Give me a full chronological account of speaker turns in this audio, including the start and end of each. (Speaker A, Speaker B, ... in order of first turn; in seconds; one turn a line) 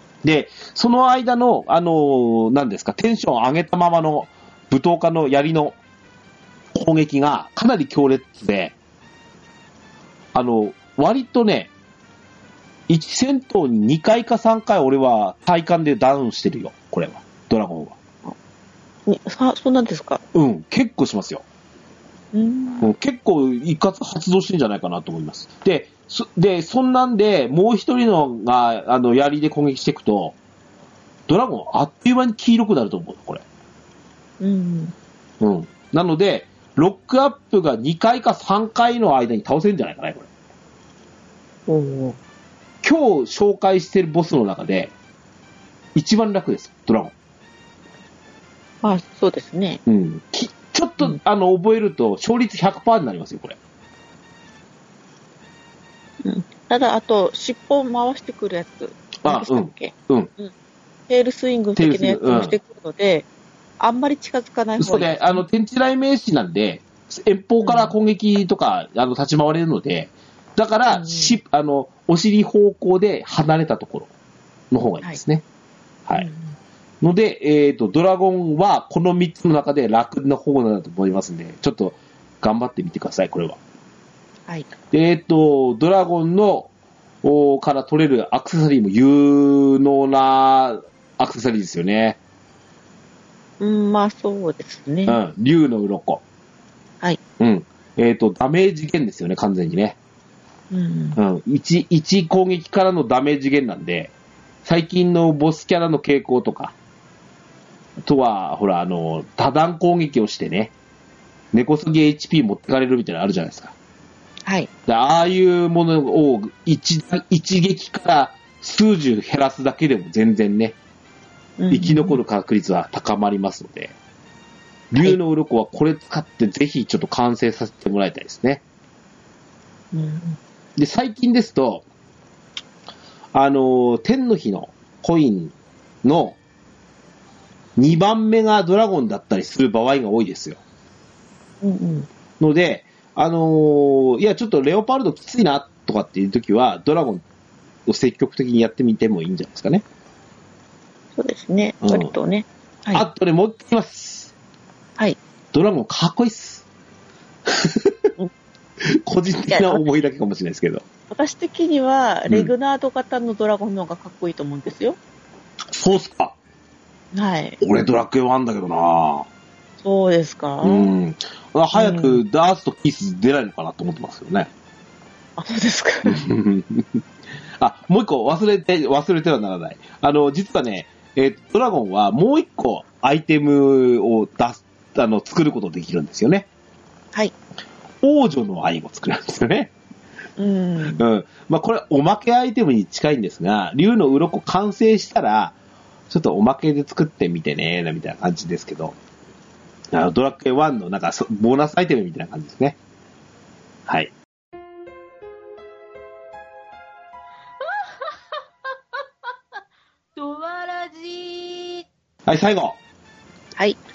Speaker A: 0.2-5.8
Speaker A: 6.7-8.8
Speaker A: 10.3-11.7
Speaker A: 12.9-18.0
Speaker B: 19.1-20.2
Speaker A: 20.3-21.4
Speaker B: 22.3-22.9
Speaker A: 22.8-30.4
Speaker A: 31.3-33.4
Speaker B: 34.4-34.9
Speaker A: 35.4-40.3
Speaker B: 41.7-42.2
Speaker A: 42.8-44.9
Speaker A: 46.0-47.1
Speaker B: 48.8-49.8
Speaker A: 49.9-53.6
Speaker B: 56.2-60.5
Speaker A: 59.2-60.3
Speaker B: 61.1-63.3
Speaker A: 61.8-62.6
Speaker B: 63.8-65.4
Speaker A: 64.8-74.1
Speaker B: 67.6-67.9
Speaker B: 70.9-71.3
Speaker A: 74.7-75.4
Speaker B: 76.1-76.5
Speaker A: 77.0-83.6
Speaker A: 84.9-86.7
Speaker A: 87.2-92.2
Speaker B: 93.6-95.2
Speaker A: 95.1-96.2
Speaker A: 97.4-100.0
Speaker B: 100.7-101.2
Speaker A: 101.2-104.1
Speaker A: 104.7-106.7
Speaker A: 108.0-110.7
Speaker A: 111.5-113.7
Speaker A: 114.9-120.8
Speaker B: 121.6-122.2
Speaker A: 121.7-124.0
Speaker A: 124.9-128.6
Speaker B: 129.9-130.4
Speaker A: 130.8-131.8
Speaker A: 133.3-136.4
Speaker A: 137.8-140.6
Speaker B: 141.6-142.1
Speaker A: 142.4-147.2
Speaker A: 147.9-149.8
Speaker B: 151.2-153.1
Speaker A: 151.8-152.1
Speaker A: 152.9-154.3
Speaker A: 155.5-156.6
Speaker A: 157.5-158.1
Speaker A: 158.9-160.8
Speaker B: 159.5-159.8
Speaker B: 161.1-165.0
Speaker A: 162.3-162.5
Speaker A: 165.7-166.3
Speaker B: 167.1-167.6
Speaker A: 167.6-169.3
Speaker B: 169.8-170.9
Speaker A: 170.6-174.5
Speaker B: 171.7-172.2
Speaker B: 175.4-176.2
Speaker A: 176.1-177.0
Speaker A: 177.6-186.5
Speaker A: 188.0-189.7
Speaker B: 190.4-191.0
Speaker A: 190.8-195.6
Speaker A: 196.1-199.0
Speaker A: 199.9-202.8
Speaker A: 203.9-204.1
Speaker C: 207.6-208.1
Speaker C: 210.2-211.8
Speaker A: 212.3-212.8